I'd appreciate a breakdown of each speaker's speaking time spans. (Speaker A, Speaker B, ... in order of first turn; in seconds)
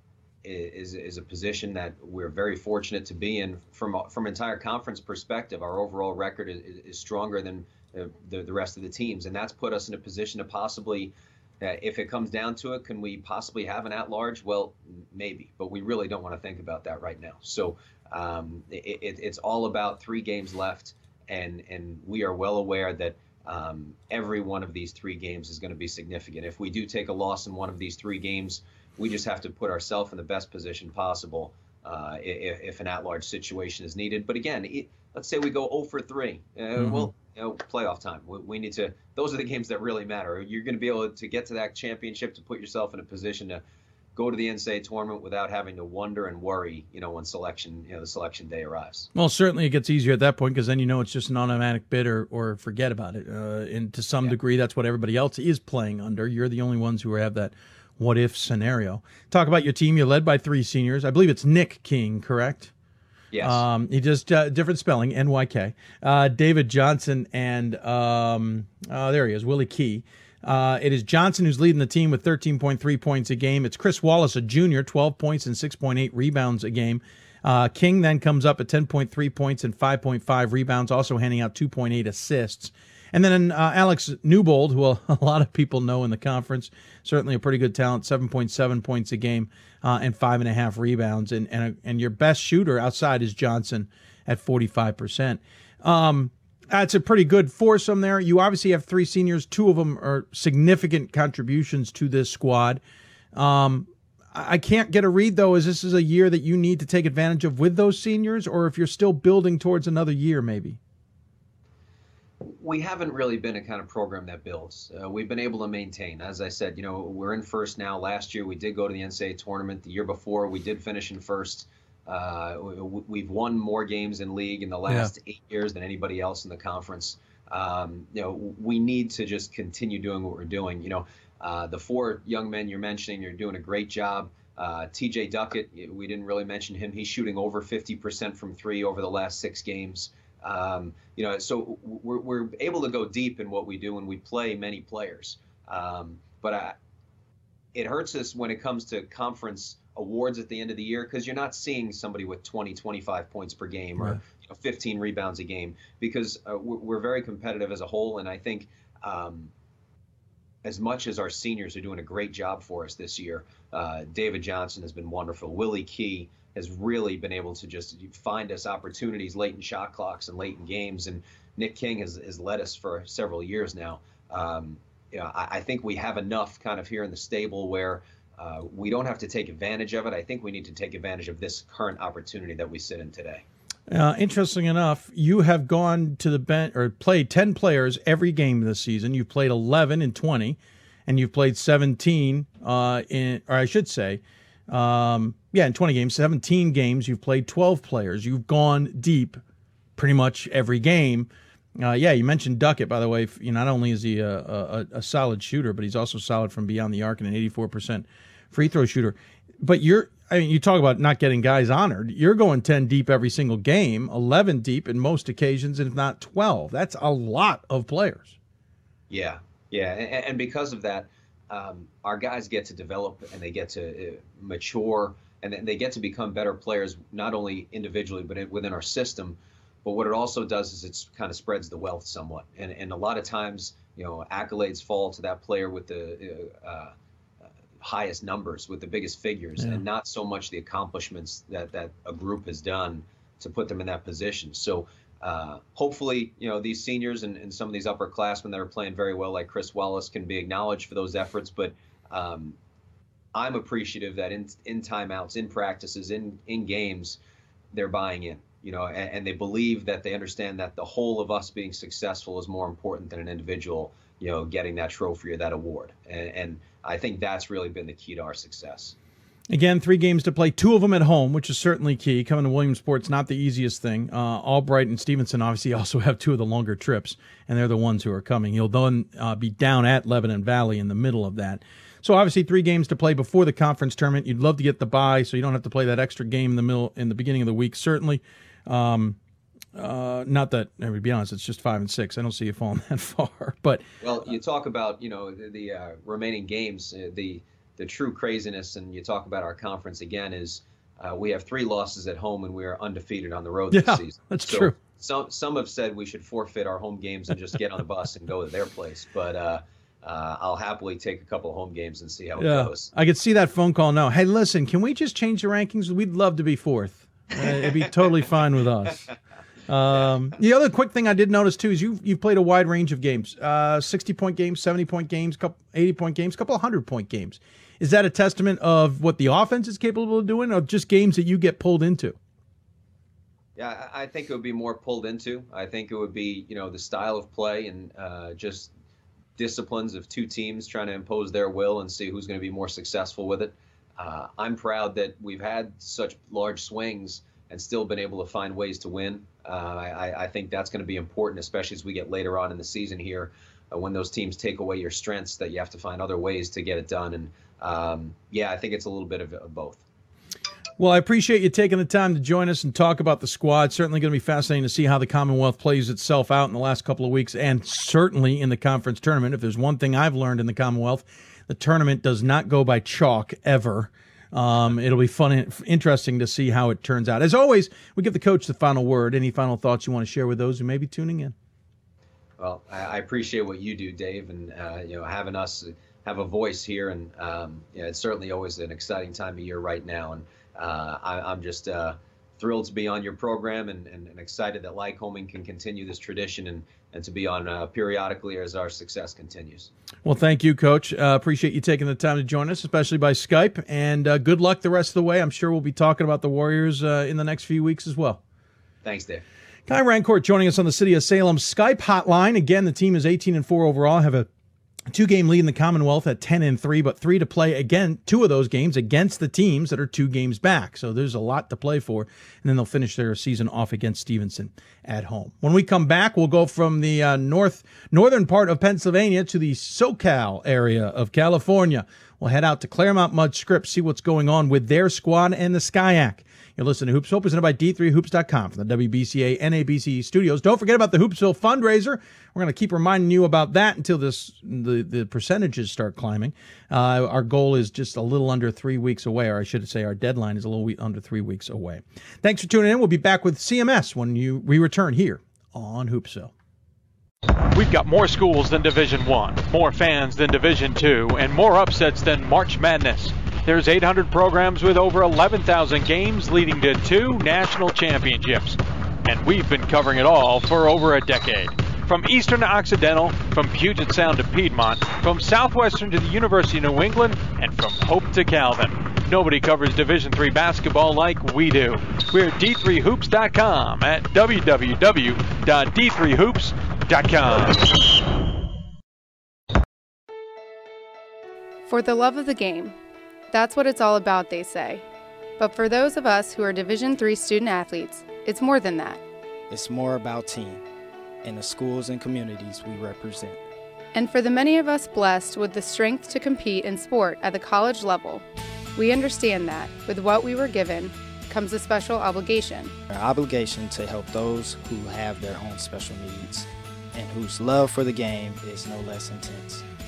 Speaker A: 0.4-43.6, 44.1-49.1, 63.3-63.6, 112.4-146.7, 147.7-159.5, 160.6-183.4, 219.1-236.9, 237.8-252.6, 253.3-257.2, 257.7-268.9, 294.0-312.9, 317.4-318.2, 333.6-338.7, 339.4-359.8, 382.4-399.7, 408.8-409.2
Speaker B: 36.8-37.1, 49.1-62.7, 63.4-102.8, 103.3-110.8, 183.9-199.4, 199.9-218.4, 269.5-289.2, 289.8-293.8, 303.7-304.8, 312.4-319.0, 319.7-332.1, 360.8-381.3, 400.0-408.2, 409.7-414.3, 414.9-456.3
Speaker C: 457.5-487.6
Speaker D: 491.6-492.8, 493.3-494.8, 495.4-499.0, 503.9-508.2, 508.8-512.7
Speaker E: 499.5-500.6, 501.2-503.4, 512.9-519.6